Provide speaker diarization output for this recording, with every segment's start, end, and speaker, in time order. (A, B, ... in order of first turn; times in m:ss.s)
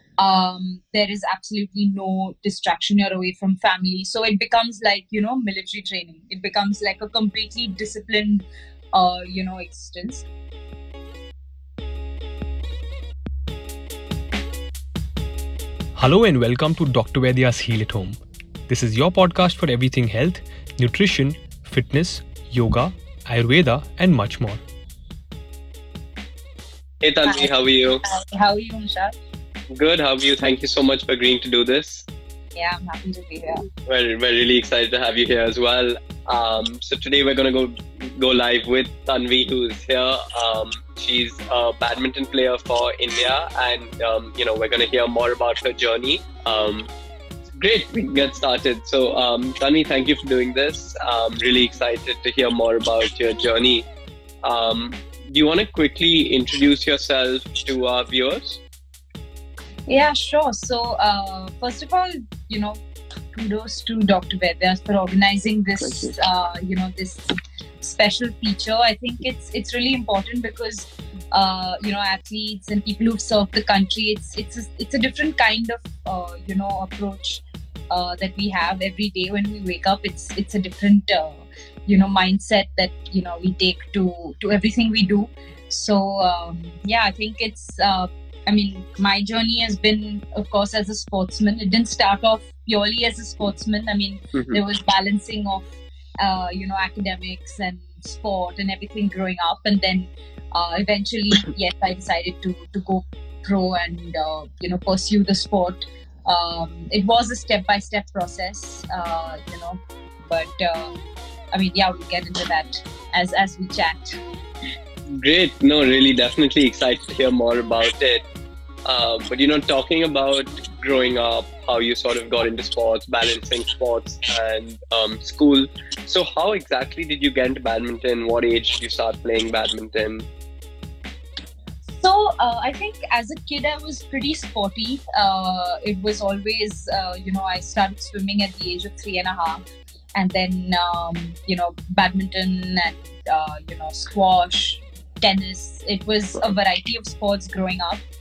0:00.2-0:10.3 A
0:16.0-0:18.2 B
0:18.7-0:24.6 B
0:27.0-0:28.0 C
0:27.2-0:29.1 A
0:29.7-0:32.1 C
0:32.6-0:33.7 A
0:33.8-0:46.9 C
0:47.5-0:53.9 C
0:54.4-0:58.6 C
0:59.9-1:02.8 A
1:03.3-1:07.3 A
1:07.8-1:35.7 A
1:34.4-1:34.6 C
1:36.2-1:50.9 A
1:51.5-1:54.2 A
1:55.1-1:58.2 C
1:58.9-2:10.3 C
2:11.9-2:19.6 A
2:20.2-2:28.0 A